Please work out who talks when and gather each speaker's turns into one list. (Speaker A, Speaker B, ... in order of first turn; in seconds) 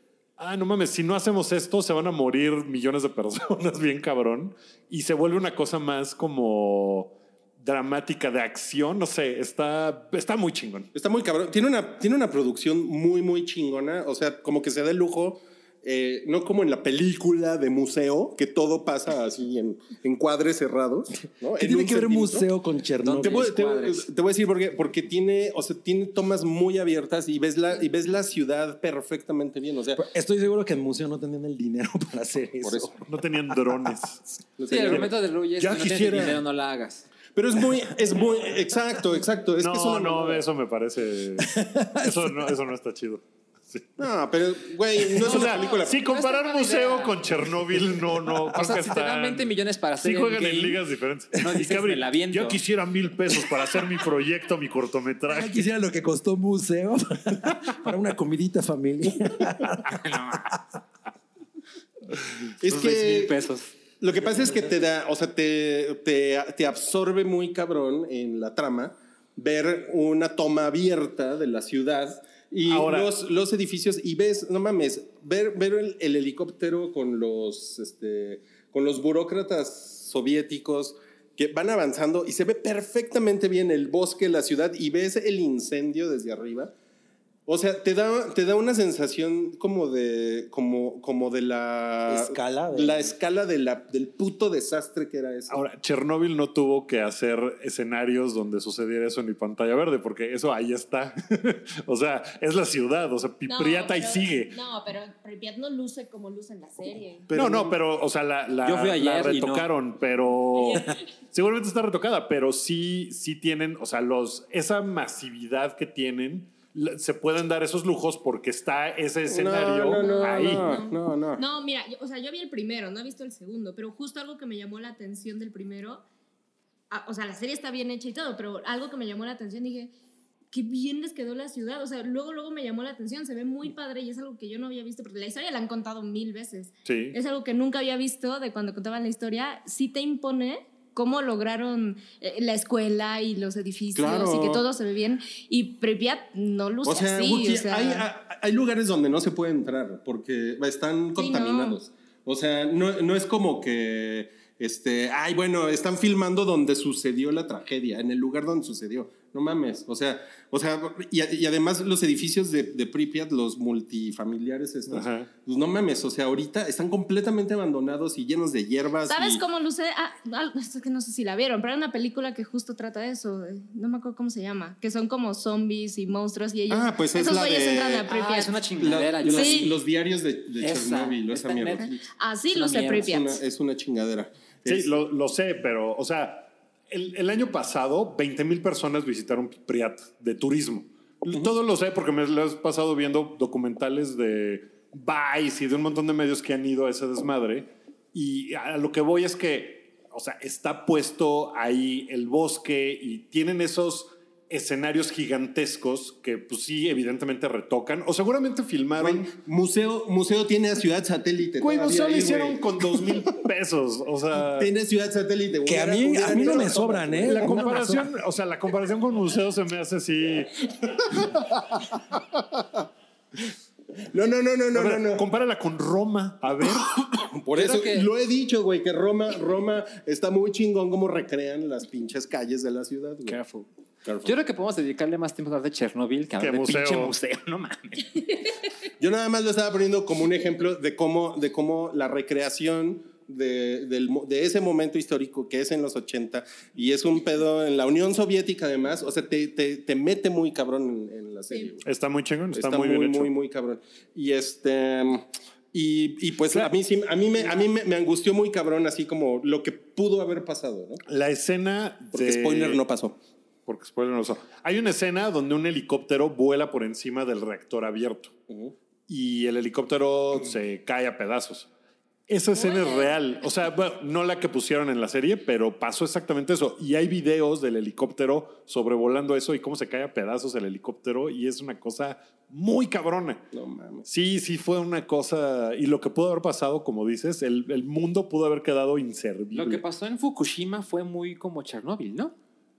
Speaker A: 0.4-10.9, 33.1-36.4, 39.6-43.9, 45.0-55.6, 72.7-73.1, 95.5-104.5, 107.3-120.8, 136.9-137.2, 164.9-165.3, 184.7-209.3, 211.6-214.7, 216.4-216.7, 217.2-221.4, 224.7-227.0, 236.4-237.1, 251.8-253.3, 261.1-262.8, 263.7-268.3, 269.1-271.7, 272.3-283.5, 284.1-289.8
Speaker B: 10.9-22.5, 23.2-30.0, 32.6-33.0, 34.6-35.1, 37.4-40.4, 44.0-46.0, 62.6-63.4, 64.0-86.7, 87.5-95.6, 107.3-107.7, 119.3-121.4, 143.9-144.7, 146.8-169.4, 176.7-178.1, 178.8-182.0, 182.9-184.9, 209.0-213.2, 214.5-217.6, 224.1-225.3, 227.2-233.4, 234.1-234.3, 239.0-251.8, 252.5-261.0, 262.1-263.2, 283.5-284.1
Speaker C: 21.6-23.5, 30.0-33.0, 41.4-42.5, 55.3-60.5, 92.1-93.1, 215.7-218.1
Speaker D: 23.0-24.1, 34.7-37.1, 45.3-47.2, 48.5-50.8, 51.4-52.6, 59.9-60.5, 62.7-63.7, 108.6-109.7, 178.1-179.8, 180.6-181.9, 182.5-183.2, 227.5-228.1, 233.3-233.7, 234.2-238.3, 289.5-292.3
Speaker E: 103.5-107.3, 110.5-111.0, 120.0-126.0, 126.9-129.9, 130.5-148.1, 151.2-151.8, 169.1-178.6, 179.3-179.8, 182.2-183.4, 272.6-273.2